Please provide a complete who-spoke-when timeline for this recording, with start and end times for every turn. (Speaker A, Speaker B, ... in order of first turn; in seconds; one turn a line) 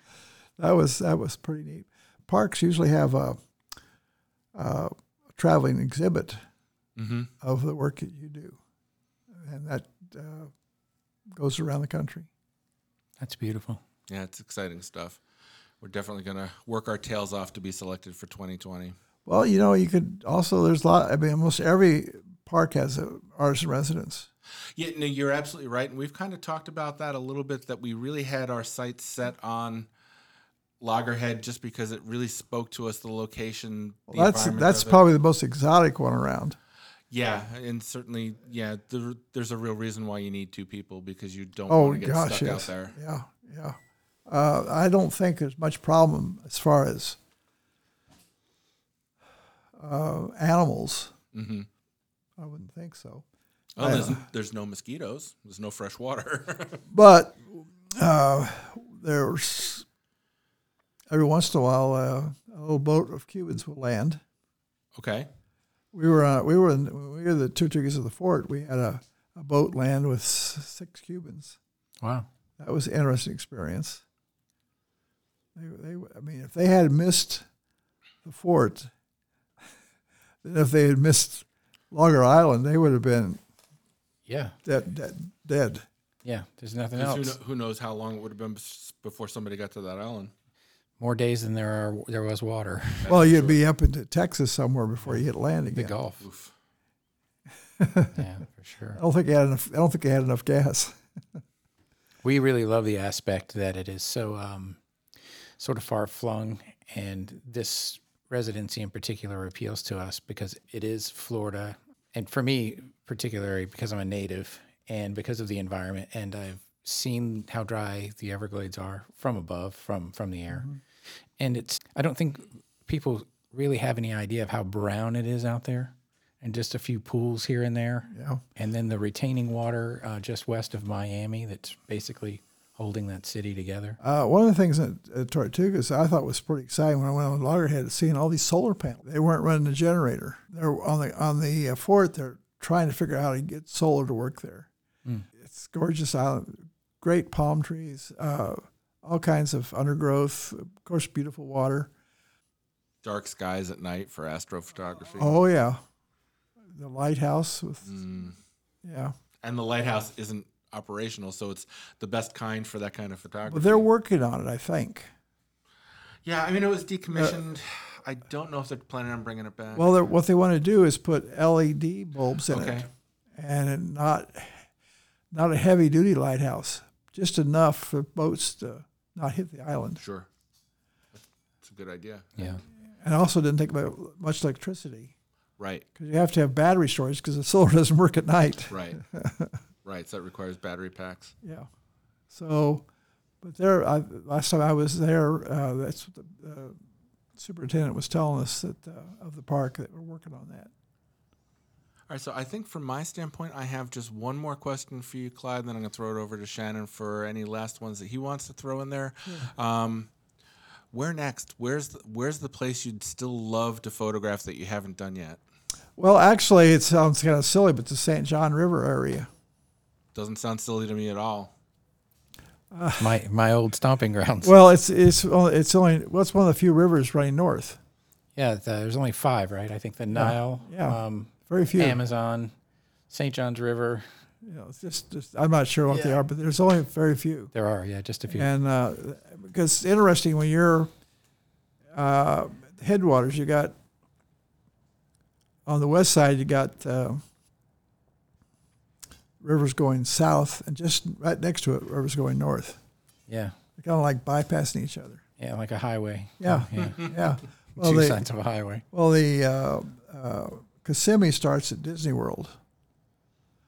Speaker A: 0.6-3.4
Speaker A: 4.5-6.4
Speaker B: 7.0-7.3
Speaker A: 7.4-8.6
Speaker A: 9.3-10.5
Speaker A: 11.3-12.3
Speaker C: 13.2-13.8
Speaker B: 14.1-15.2
Speaker B: 15.8-19.0
Speaker A: 19.3-24.3
Speaker B: 24.8-29.9
Speaker B: 30.8-35.0
Speaker A: 34.1-36.6
Speaker B: 37.1-43.0
Speaker A: 41.7-47.2
Speaker A: 49.8-51.1
Speaker B: 51.3-51.7
Speaker A: 52.4-53.2
Speaker B: 53.8-56.8
Speaker A: 53.8-54.2
Speaker A: 56.9-59.9
Speaker A: 61.1-64.2
Speaker B: 65.0-65.3
Speaker A: 65.9-71.6
Speaker C: 72.0-72.3
Speaker A: 72.6-74.0
Speaker A: 75.5-77.5
Speaker A: 78.2-78.9
Speaker A: 80.4-83.4
Speaker C: 84.3-84.6
Speaker A: 84.7-85.8
Speaker C: 86.2-87.4
Speaker B: 86.9-90.3
Speaker C: 91.0-93.1
Speaker B: 93.0-93.6
Speaker A: 93.1-96.0
Speaker C: 95.7-96.2
Speaker B: 96.2-96.5
Speaker A: 97.8-98.2
Speaker C: 98.1-99.0
Speaker A: 99.0-101.4
Speaker C: 102.2-104.8
Speaker C: 105.6-120.7
Speaker A: 120.5-120.8
Speaker C: 121.4-134.0
Speaker A: 128.1-128.4
Speaker A: 134.0-144.7
Speaker A: 145.4-151.9
Speaker B: 153.0-155.4
Speaker A: 155.2-155.8
Speaker A: 156.7-157.9
Speaker B: 157.8-158.4
Speaker A: 158.8-159.1
Speaker B: 159.4-163.8
Speaker A: 163.5-165.1
Speaker B: 166.2-169.9
Speaker A: 167.1-167.4
Speaker A: 169.7-172.9
Speaker B: 172.5-172.9
Speaker A: 173.4-174.6
Speaker A: 175.3-180.0
Speaker B: 180.0-180.3
Speaker B: 181.6-182.5
Speaker C: 182.4-182.6
Speaker A: 183.0-185.1
Speaker B: 185.6-185.9
Speaker A: 186.0-189.6
Speaker B: 188.7-189.0
Speaker B: 189.8-191.3
Speaker A: 191.4-191.7
Speaker A: 192.3-192.9
Speaker A: 193.4-196.8
Speaker A: 197.4-200.7
Speaker B: 202.1-210.1
Speaker B: 210.9-215.4
Speaker A: 216.0-219.3
Speaker B: 220.2-221.5
Speaker A: 222.7-223.2
Speaker C: 223.0-224.5
Speaker A: 224.4-227.8
Speaker C: 228.4-232.5
Speaker A: 230.1-232.0
Speaker C: 233.1-234.1
Speaker A: 234.4-237.5
Speaker C: 235.9-236.2
Speaker C: 237.5-238.5
Speaker A: 238.3-240.9
Speaker A: 241.9-243.8
Speaker A: 245.7-247.2
Speaker A: 249.4-252.8
Speaker C: 253.3-253.6
Speaker A: 253.8-255.2
Speaker C: 255.4-258.9
Speaker A: 256.4-258.2
Speaker A: 258.9-262.6